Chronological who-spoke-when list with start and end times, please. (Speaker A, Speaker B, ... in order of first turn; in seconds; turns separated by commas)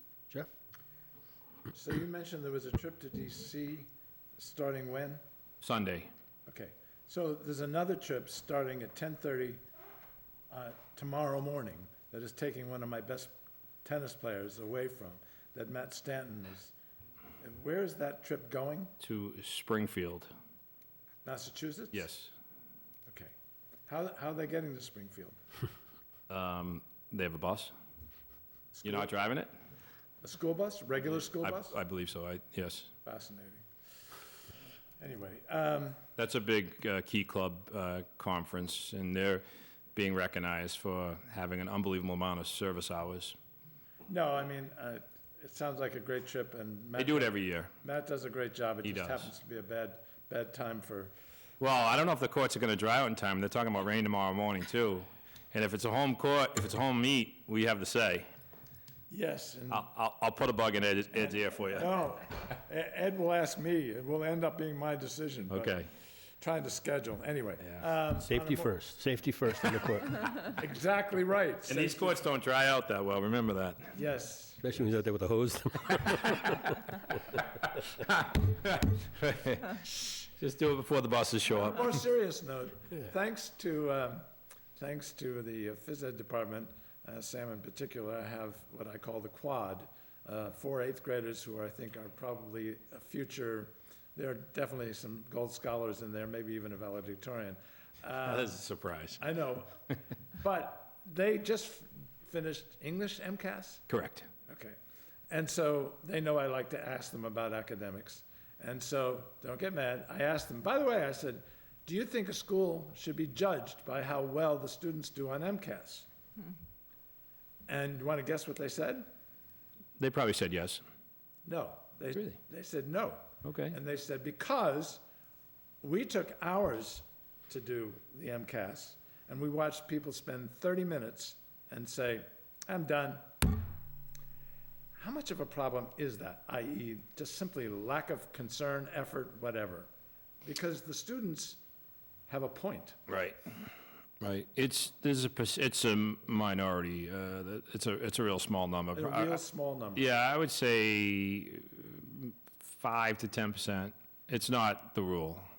Speaker A: 1.7-5.2, Speaker B: 5.6-6.1, Speaker A: 6.5-9.6, Speaker A: 10.5-16.7, Speaker A: 17.4-18.9, Speaker B: 19.0-20.3, Speaker A: 21.2-22.1, Speaker B: 21.9-22.3, Speaker A: 23.1-23.3, Speaker A: 23.9-25.4, Speaker B: 26.3-27.7, Speaker A: 28.7-29.1, Speaker B: 28.8-29.5, Speaker A: 30.2-31.8, Speaker B: 31.4-32.9, Speaker A: 33.0-33.6, Speaker A: 35.0-36.0, Speaker B: 36.1-39.4, Speaker B: 40.0-43.4, Speaker A: 44.1-51.1, Speaker B: 47.0-47.7, Speaker B: 48.8-49.3, Speaker B: 51.6-58.3, Speaker A: 59.1-59.8, Speaker B: 59.7-61.9, Speaker A: 61.7-65.8, Speaker B: 65.5-65.9, Speaker A: 66.4-68.8, Speaker C: 68.2-70.5, Speaker A: 70.5-72.2, Speaker B: 71.7-73.9, Speaker A: 73.9-74.7, Speaker C: 74.6-76.8, Speaker B: 78.1-81.9, Speaker A: 81.6-84.2, Speaker A: 84.8-98.6, Speaker B: 98.2-99.2, Speaker A: 99.2-99.7, Speaker A: 100.4-103.8, Speaker B: 103.9-104.3, Speaker A: 104.5-104.8, Speaker A: 105.3-116.1, Speaker A: 117.7-119.1, Speaker B: 120.0-120.8, Speaker A: 121.5-125.0, Speaker B: 123.4-123.8, Speaker A: 125.8-133.3, Speaker A: 135.0-139.9, Speaker A: 140.4-141.6, Speaker A: 142.3-143.0, Speaker B: 143.1-143.4, Speaker B: 144.2-149.4, Speaker A: 148.9-150.1, Speaker B: 149.9-155.4